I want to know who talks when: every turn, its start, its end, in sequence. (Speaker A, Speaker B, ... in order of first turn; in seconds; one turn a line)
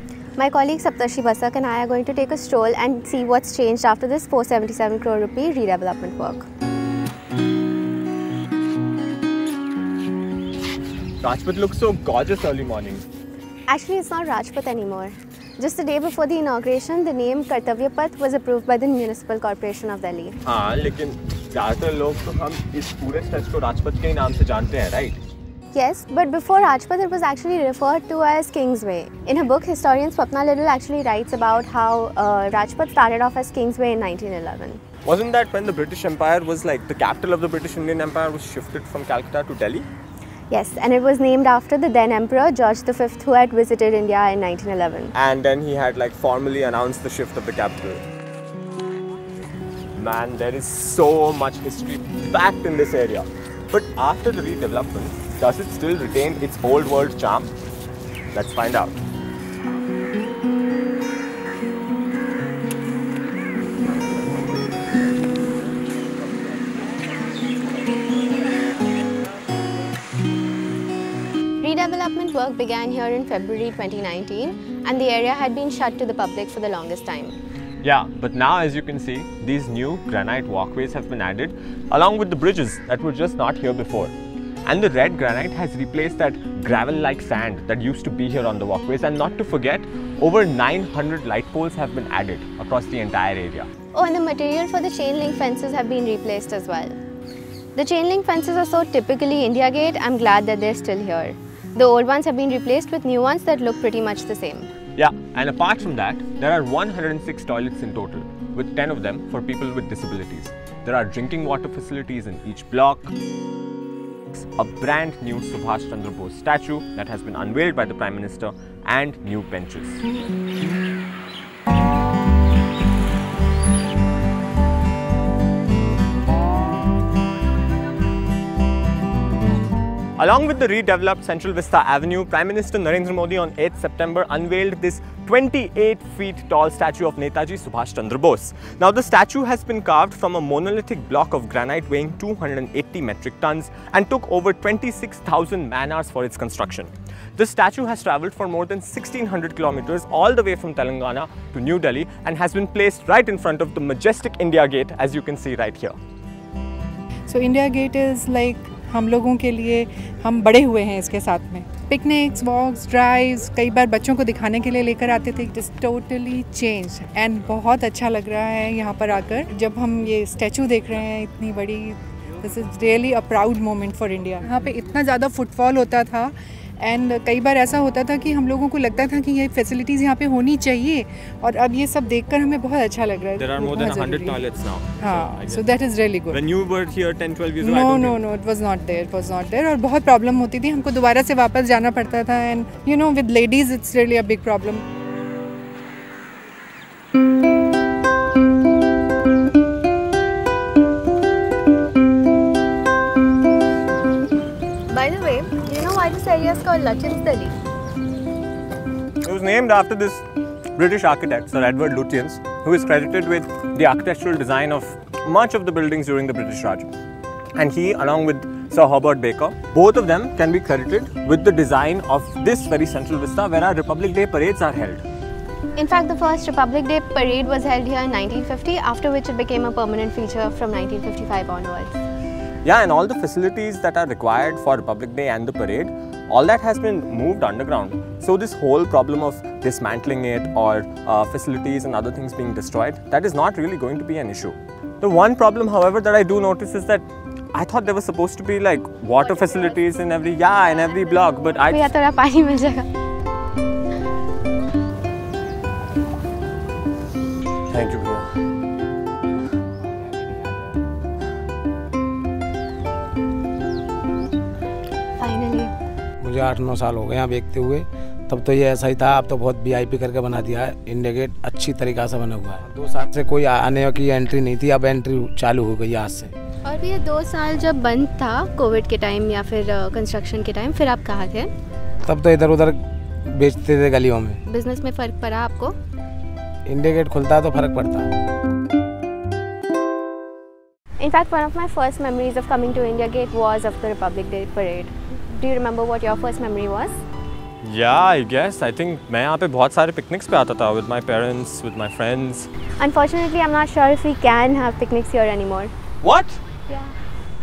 Speaker A: 0.4-6.5
Speaker B: 11.2-13.0
Speaker A: 13.7-20.4
Speaker B: 20.4-25.2
Speaker A: 25.7-34.8
Speaker B: 35.0-39.9
Speaker A: 40.5-45.1
Speaker B: 45.1-48.0
Speaker B: 50.0-57.5
Speaker B: 58.3-59.0
Speaker A: 71.6-77.3
Speaker B: 77.8-84.1
Speaker B: 84.7-93.7
Speaker A: 93.9-97.0
Speaker A: 97.7-104.7
Speaker B: 105.0-113.1
Speaker B: 114.3-120.0
Speaker B: 130.2-156.0
Speaker C: 157.3-184.4
Speaker B: 183.4-185.7
Speaker C: 185.0-186.4
Speaker B: 186.3-188.2
Speaker C: 187.6-194.8
Speaker A: 204.9-207.5
Speaker B: 209.2-210.2
Speaker B: 210.8-216.9
Speaker B: 217.5-225.0
Speaker A: 225.8-231.9
Speaker B: 232.6-251.9
Speaker A: 249.3-249.7
Speaker A: 251.6-252.9
Speaker B: 257.7-258.2
Speaker A: 265.2-265.7
Speaker D: 266.2-276.3
Speaker A: 276.6-281.5
Speaker D: 282.0-284.4
Speaker A: 284.4-285.7
Speaker D: 286.6-288.1
Speaker A: 291.0-297.0
Speaker B: 297.6-302.5
Speaker A: 302.8-305.7
Speaker B: 306.0-306.4